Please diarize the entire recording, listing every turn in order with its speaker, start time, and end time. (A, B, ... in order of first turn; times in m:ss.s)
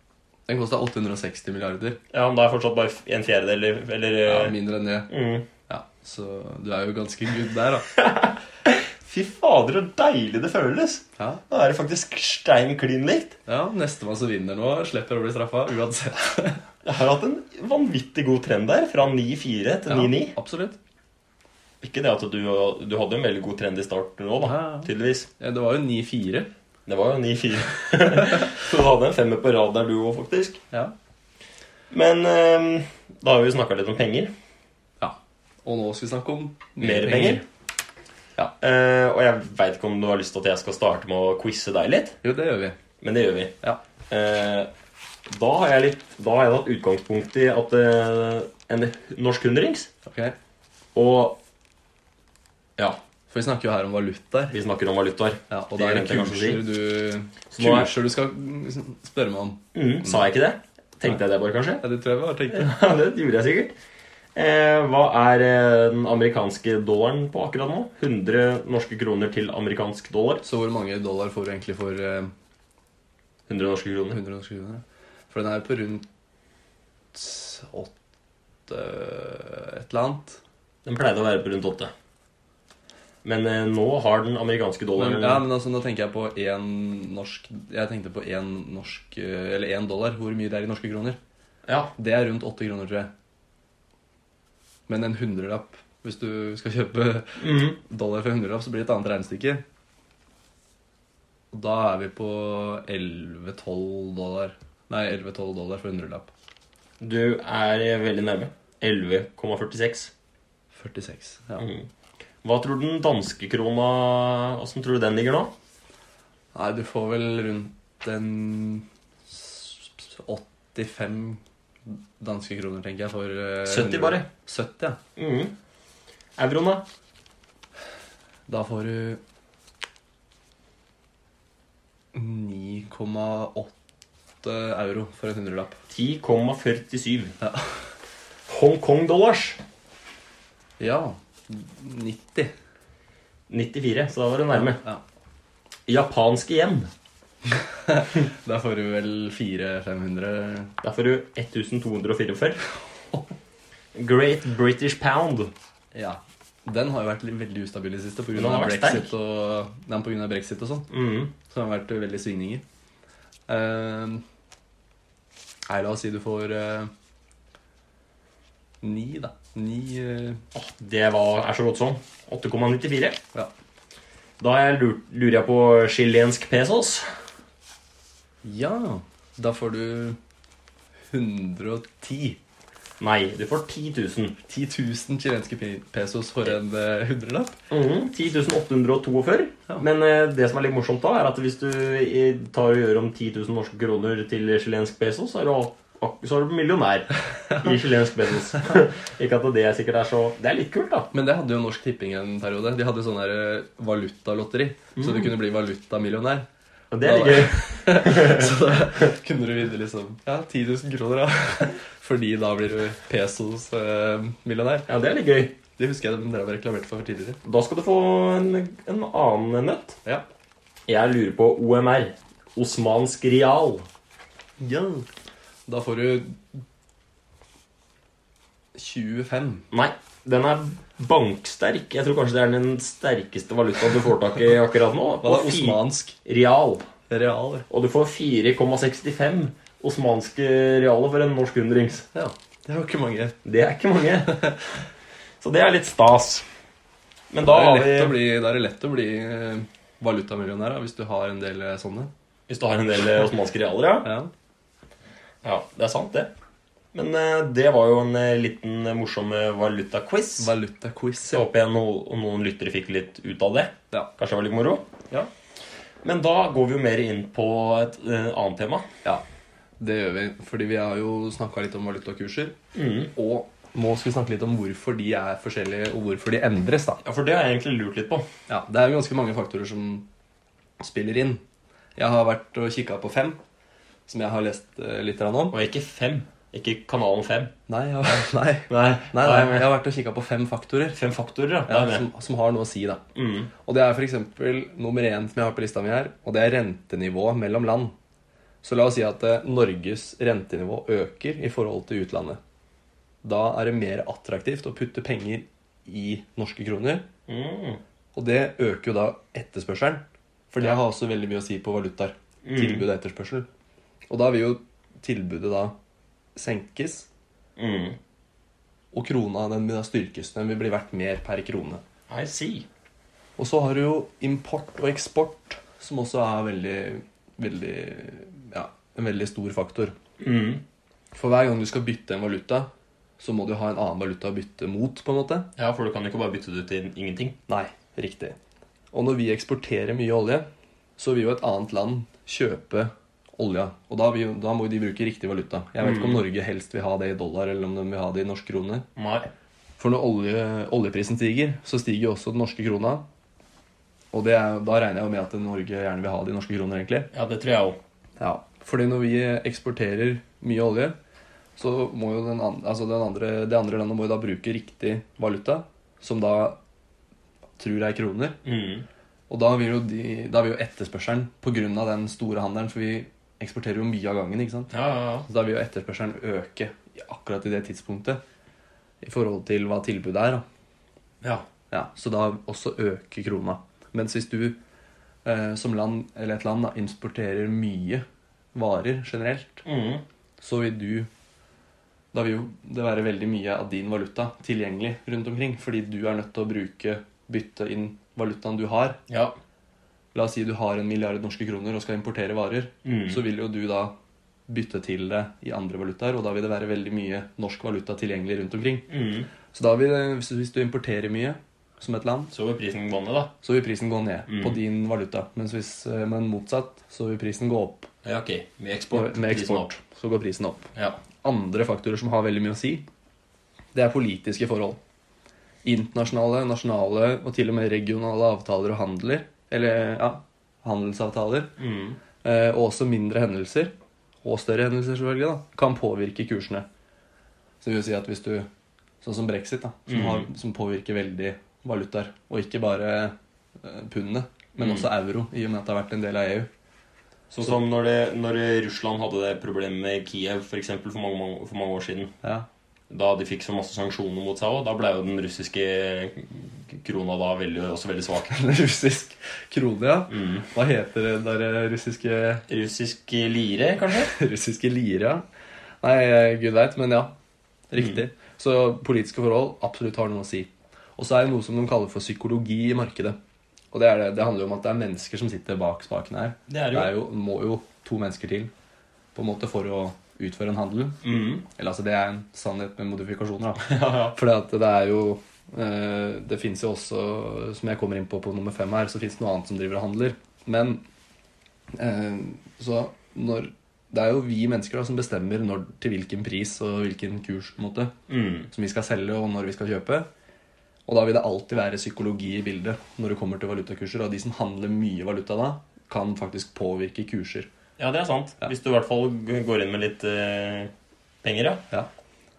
0:00.5-0:02.0 A
0:02.1-0:04.6 B
0:04.2-0:05.1 A
0:05.1-0:05.5 B
0:05.7-0:07.9 A
0:08.0-0:13.4 B
0:13.5-0:16.6 A
0:16.8-0:20.3 B
0:19.9-0:20.8 A
0:21.8-0:25.3 B
0:24.4-0:26.5 A
0:26.8-0:30.6 B
0:28.2-0:28.5 A
0:31.9-0:34.3 B
0:35.0-0:37.4 A
0:36.8-0:37.4 B
0:38.6-0:42.2 B
0:42.2-0:42.8 A
0:43.0-0:43.5 B
0:44.1-0:44.7 B
0:45.3-0:49.9 B
0:50.0-0:50.3 A
0:50.9-0:51.4 B
0:53.3-0:54.6 A
0:54.5-0:56.6 B
0:55.5-1:00.2 A
0:57.5-0:57.9 B
0:59.7-1:01.8 B
1:01.8-1:02.7 A
1:02.5-1:03.7 B
1:04.3-1:10.4 B
1:10.4-1:12.3 A
1:13.5-1:14.2 B
1:14.1-1:16.1 A
1:17.1-1:17.9 A
1:18.7-1:20.4 A
1:20.8-1:21.9 B
1:23.2-1:25.4 B
1:25.0-1:31.2 A
1:31.7-1:31.9 B
1:32.0-1:33.1 A
1:34.9-1:39.6 A
1:37.4-1:37.8 B
1:41.5-1:46.3 A
1:47.0-1:50.1 B
1:50.7-1:51.7 A
1:51.6-1:51.9 B
1:52.4-1:55.5 B
1:56.5-2:05.0 A
2:03.6-2:04.3 B
2:05.2-2:05.5 B
2:06.4-2:06.8 B
2:08.5-2:09.2 A
2:12.1-2:13.7 A
2:14.4-2:15.8 A
2:15.9-2:17.3 B
2:17.4-2:17.8 A
2:18.5-2:19.6 B
2:20.8-2:22.5 A
2:23.5-2:24.8 B
2:24.5-2:25.0 A
2:25.9-2:26.9 B
2:27.4-2:30.7 A
2:30.8-2:32.6 B
2:33.9-2:35.5 B
2:35.9-2:40.9 A
2:38.3-2:39.1 B
2:40.9-2:41.3 B
2:41.4-2:42.6 A
2:43.5-2:44.2 A
2:45.7-2:46.9 A
2:48.8-2:50.4 A
2:50.5-2:53.2 B
2:54.4-2:57.0 B
2:58.4-3:00.2 A
3:01.1-3:02.4 A
3:03.0-3:04.4 B
3:04.5-3:07.6 A
3:07.7-3:21.1 B
3:21.1-3:26.5 A
3:25.0-3:25.3 B
3:26.9-3:28.7 B
3:27.0-3:34.9 A
3:34.9-3:35.5 B
3:35.8-3:37.4 A
3:37.4-3:40.0 B
3:40.9-3:43.9 B
3:44.6-3:45.1 A
3:45.6-3:46.4 A
3:48.7-3:49.6 A
3:49.7-3:56.9 B
3:55.2-3:56.2 A
3:57.1-3:57.6 A
3:57.7-4:02.0 B
4:02.1-4:03.4 A
4:03.4-4:04.4 B
4:04.2-4:04.6 A
4:05.4-4:06.5 B
4:07.3-4:08.2 B
4:07.4-4:12.1 A
4:12.5-4:14.1 B
4:14.0-4:14.3 A
4:15.4-4:16.3 B
4:16.9-4:20.5 B
4:20.4-4:21.5 A
4:21.3-4:24.8 B
4:26.0-4:28.9 B
4:29.8-4:32.6 A
4:32.7-4:33.1 B
4:33.1-4:37.0 A
4:37.0-4:38.3 B
4:38.5-4:40.1 A
4:40.8-4:41.4 A
4:42.0-4:43.4 A
4:44.1-4:45.6 A
4:45.5-4:47.5 B
4:47.7-4:51.0 A
4:48.1-4:49.7 B
4:50.9-4:52.0 B
4:51.7-4:53.0 A
4:53.1-4:53.5 B
4:53.6-4:57.9 A
4:58.6-5:02.4 A
5:03.2-5:07.0 A
5:07.3-5:07.8 B
5:08.1-5:13.5 A
5:12.4-5:12.8 B
5:14.1-5:15.7 A
5:16.3-5:17.1 A
5:17.6-5:18.0 B
5:18.9-5:21.8 A
5:22.1-5:22.6 B
5:23.4-5:29.9 A
5:30.2-5:30.6 B
5:31.1-5:32.7 A
5:33.2-5:35.5 A
5:35.6-5:37.4 B
5:37.5-5:38.4 A
5:38.9-5:40.4 A
5:41.0-5:48.8 A
5:45.8-5:46.2 B
5:49.0-5:49.3 B
5:49.8-5:53.0 A
5:54.1-5:57.1 A
5:57.1-5:57.8 B
5:58.2-6:01.0 A
6:01.6-6:06.6 A
6:07.6-6:08.4 A
6:08.4-6:08.8 B
6:09.3-6:14.7 A
6:14.7-6:15.2 B
6:15.2-6:18.2 A
6:19.0-6:20.4 A
6:21.7-6:24.6 A
6:25.2-6:29.6 A
6:29.6-6:30.0 B
6:30.4-6:31.1 A
6:32.1-6:39.0 A
6:39.1-6:39.3 B
6:40.1-6:43.9 A
6:42.8-6:43.2 B
6:44.5-6:48.9 A
6:48.9-6:49.3 B
6:49.5-6:52.3 A
6:52.3-6:53.3 B
6:53.4-6:57.9 A
6:54.3-6:54.6 B
6:58.0-6:59.7 B
6:58.9-7:00.7 A
7:01.2-7:02.8 A
7:03.7-7:04.8 A
7:05.6-7:11.5 A
7:11.6-7:12.0 B
7:12.2-7:13.7 A
7:14.2-7:16.6 A
7:17.6-7:18.5 A
7:19.0-7:26.5 A
7:19.9-7:20.2 B
7:24.6-7:24.9 B
7:27.3-7:32.1 B
7:32.2-7:32.5 A
7:32.9-7:38.3 B
7:38.3-7:42.4 A
7:40.1-7:40.4 B
7:42.5-7:44.1 B
7:43.9-7:45.2 A
7:45.8-7:47.1 A
7:47.7-7:53.2 A
7:53.7-7:58.5 A
7:56.5-7:56.9 B
7:59.1-8:10.8 A
8:01.0-8:01.4 B
8:03.6-8:04.2 B
8:11.7-8:17.9 A
8:18.1-8:18.5 B
8:18.5-8:20.1 A
8:20.9-8:27.5 A
8:27.8-8:30.7 B
8:31.2-8:31.6 B